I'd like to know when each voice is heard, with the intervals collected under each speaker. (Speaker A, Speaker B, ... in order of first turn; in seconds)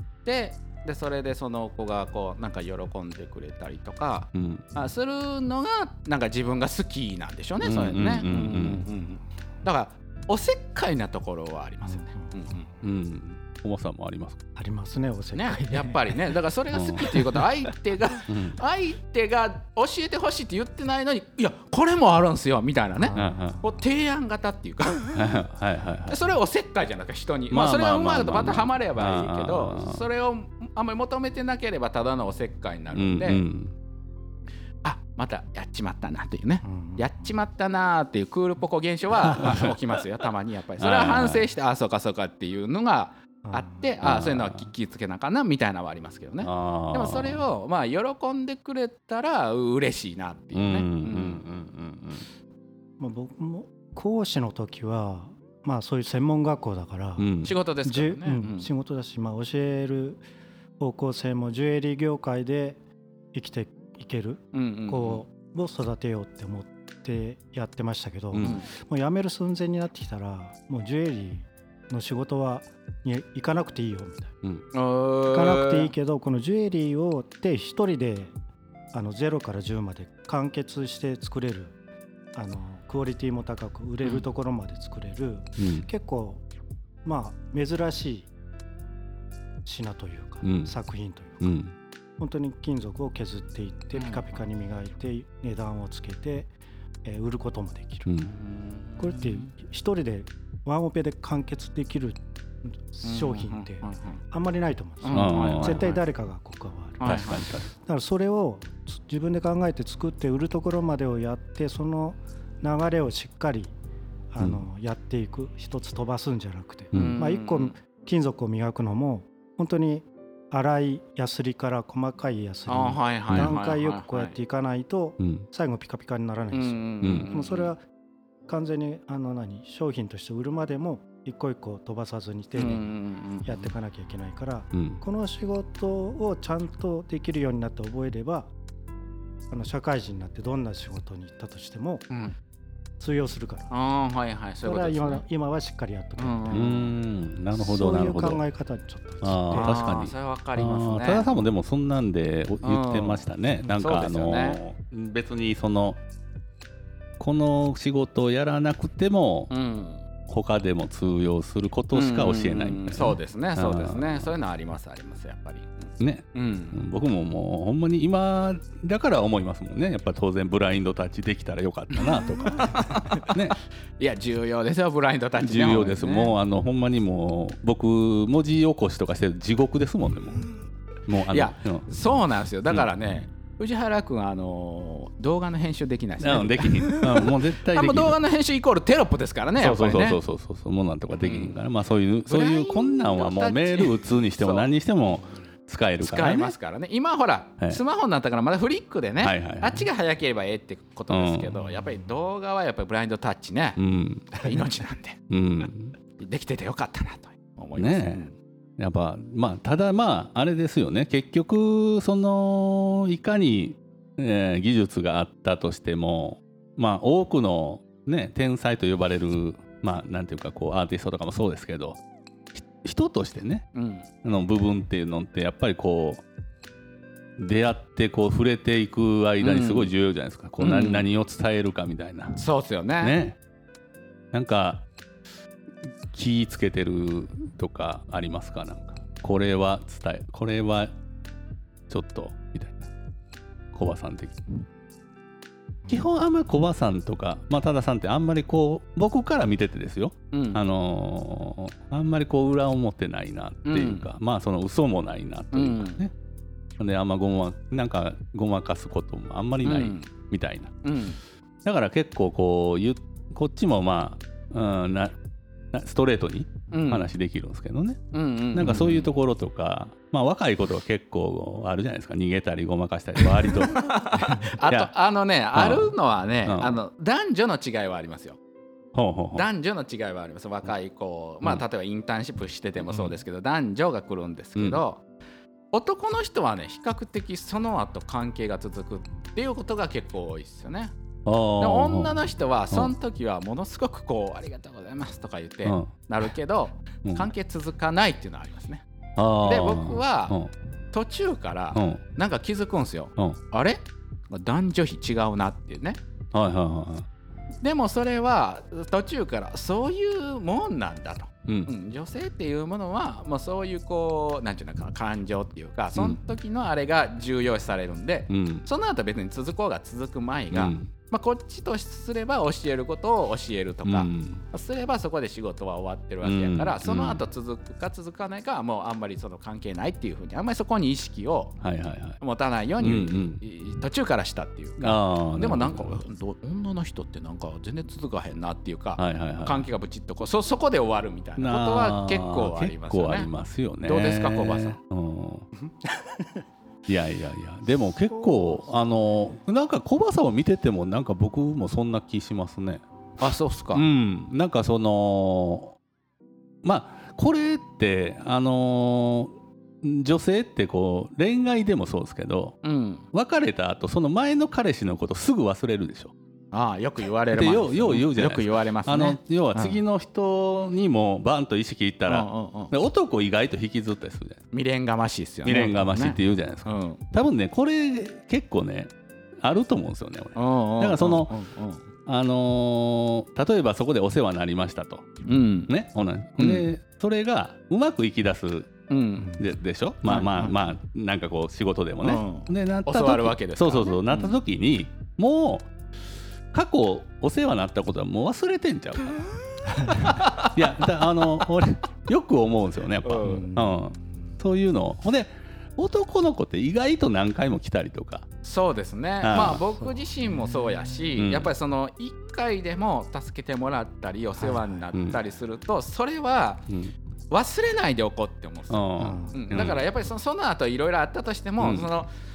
Speaker A: 0.2-12.7, 15.3-25.4, 26.1-33.4, 34.8-52.2, 57.4-58.7, 64.5-65.2, 68.4-68.7, 74.7-75.9, 93.9-94.4, 98.3-99.5, 103.0-104.2, 105.0-106.0, 107.0-107.5, 116.9-117.8, 122.7-124.3, 126.5-127.7, 132.6-133.7, 142.1-142.3, 143.7-145.2, 146.2-146.8, 149.5-151.3, 152.6-154.6, 159.5-160.0, 161.9-166.8, 171.9-173.4, 174.0-176.3, 181.3-190.2, 191.2-191.6, 192.3-194.7, 196.0-203.8, 204.3-205.2, 206.2-208.3, 223.7-224.1, 229.4-229.9, 230.6-231.1, 232.4-233.2, 250.3-250.6, 253.7-254.1, 255.5-256.0, 259.6-260.1, 260.8-261.2, 266.7-267.1, 268.1-269.1, 273.2-278.4, 279.3-285.0, 285.7-290.9, 291.6-298.8, 299.4-300.4, 300.9-306.0, 307.6-331.6, 332.2-343.3, 343.8-344.8, 353.2-353.8, 362.6-363.1, 366.5-369.8, 372.1-372.7, 374.5-377.0, 380.3-381.8, 385.2-385.7, 386.4-386.6, 388.9-389.4, 390.1-390.5, 392.0-394.4, 400.0-400.5, 403.0-403.5, 408.4-416.6, 417.3-422.1
Speaker B: 4.3-4.6, 7.6-8.8, 12.8-14.4, 16.7-17.2, 18.3-18.6, 23.1-23.6, 25.1-26.2, 27.5-30.0, 32.9-33.7, 39.2-39.8, 40.8-41.5, 44.0-44.7, 46.4-47.4, 50.5-51.5, 57.2-57.5, 68.3-68.6, 85.6-85.9, 90.4-90.7, 91.4-91.7, 98.0-98.3, 105.1-105.9, 107.0-107.7, 116.9-117.2, 125.2-125.5, 127.0-127.3, 134.7-135.0, 146.5-148.4, 149.2-156.0, 157.2-159.5, 160.2-164.3, 166.0-173.6, 175.4-180.4, 181.1-181.9, 186.2-188.2, 189.6-196.5, 199.2-199.8, 201.1-201.6, 203.8-204.4, 205.3-205.9, 207.8-208.2, 208.8-222.0, 222.5-223.7, 224.2-226.2, 227.4-232.4, 233.0-233.4, 234.3-234.8, 236.1-240.9, 241.9-242.9, 243.7-244.7, 245.9-256.1, 256.8-260.8, 261.6-265.1, 265.7-268.0, 268.5-274.9, 275.5-275.9, 276.4-276.8, 278.9-279.4, 282.9-283.2, 284.6-284.8, 291.2-292.2, 295.6-295.9, 299.2-300.5, 301.7-302.0, 306.3-307.1, 315.9-316.2, 318.3-318.6, 320.5-320.9, 323.8-324.4, 326.2-327.2, 331.6-332.2, 332.8-333.4, 334.8-336.0, 339.0-339.6, 341.4-345.5, 346.9-352.8, 353.7-355.8, 356.6-362.6, 363.1-366.1, 367.3-374.4, 375.4-381.3, 382.1-385.1, 385.7-388.7, 389.4-395.7, 396.5-399.3, 399.8-408.3, 409.2-409.6, 411.2-411.5, 414.9-415.2, 416.7-416.9, 418.7-419.8, 421.6-421.9
Speaker C: 11.8-12.7, 14.6-16.4, 17.1-17.4, 23.0-23.6, 36.6-37.1, 43.4-43.9, 53.0-57.3, 57.8-60.2, 60.8-62.8, 63.3-74.3, 75.3-78.3, 78.9-81.7, 82.3-86.4, 87.0-88.3, 89.6-91.6, 92.2-96.5, 97.0-98.1, 99.0-113.7, 114.3-127.8, 128.5-132.9, 133.4-138.5, 139.5-142.0, 143.0-143.7, 144.6-146.8, 147.5-149.9, 345.8-346.4, 348.1-348.8, 403.2-404.4, 409.8-411.1, 414.4-414.7, 419.0-419.5